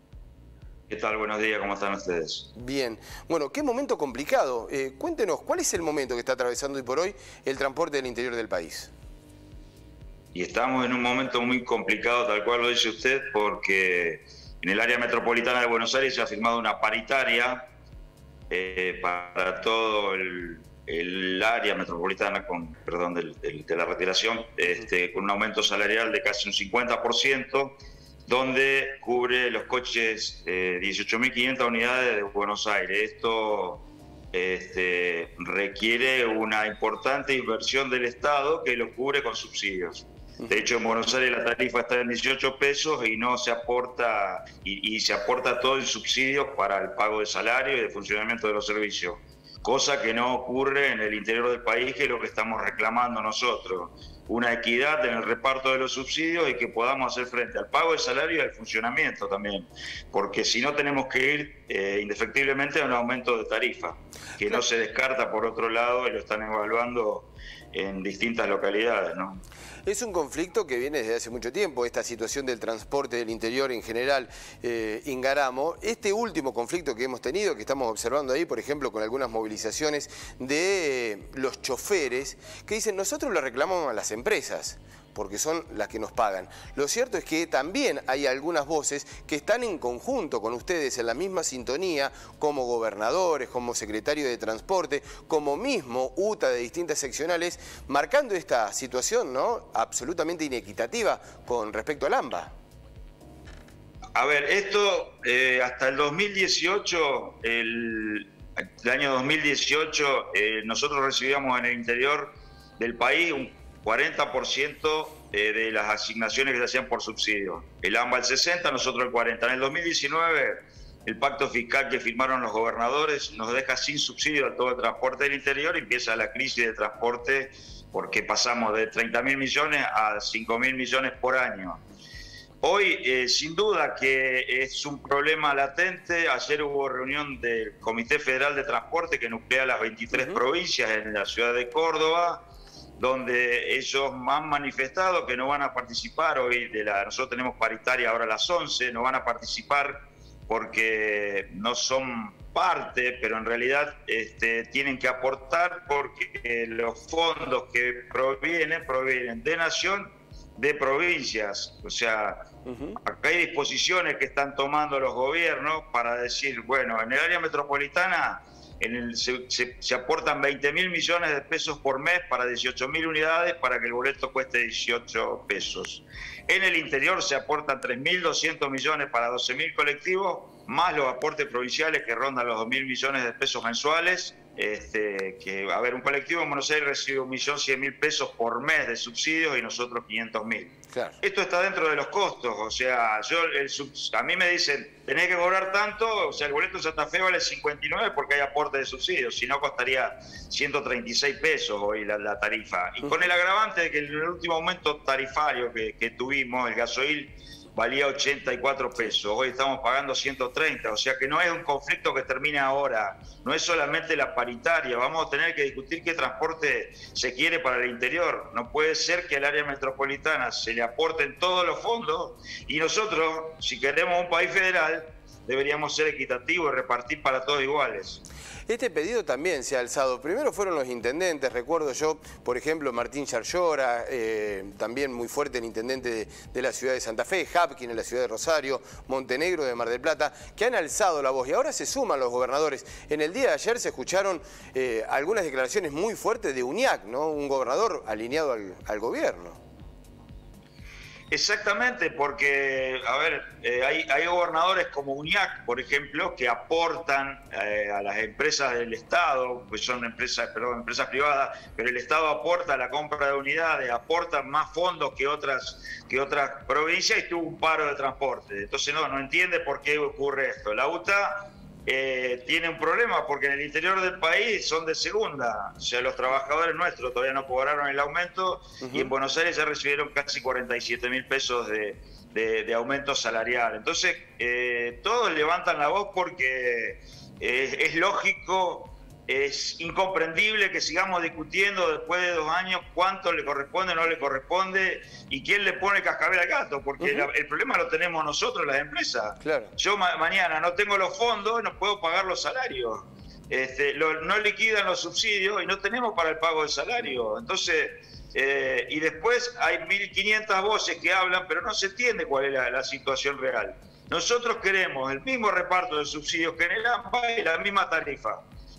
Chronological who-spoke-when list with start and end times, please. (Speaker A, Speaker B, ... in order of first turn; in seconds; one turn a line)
Speaker A: 0.9-2.5
Speaker B: 2.5-8.9
Speaker A: 10.3-17.7
Speaker A: 18.5-69.4
Speaker B: 69.8-102.5
Speaker A: 104.1-131.8
Speaker A: 132.6-142.4
Speaker B: 140.1-140.4
Speaker A: 143.0-162.5
Speaker B: 162.7-163.0
Speaker A: 163.0-228.2
Speaker B: 190.9-191.2
Speaker B: 228.7-249.6
Speaker A: 251.3-318.4
Speaker B: 278.8-279.1
Speaker B: 297.0-297.3
Speaker B: 299.4-299.7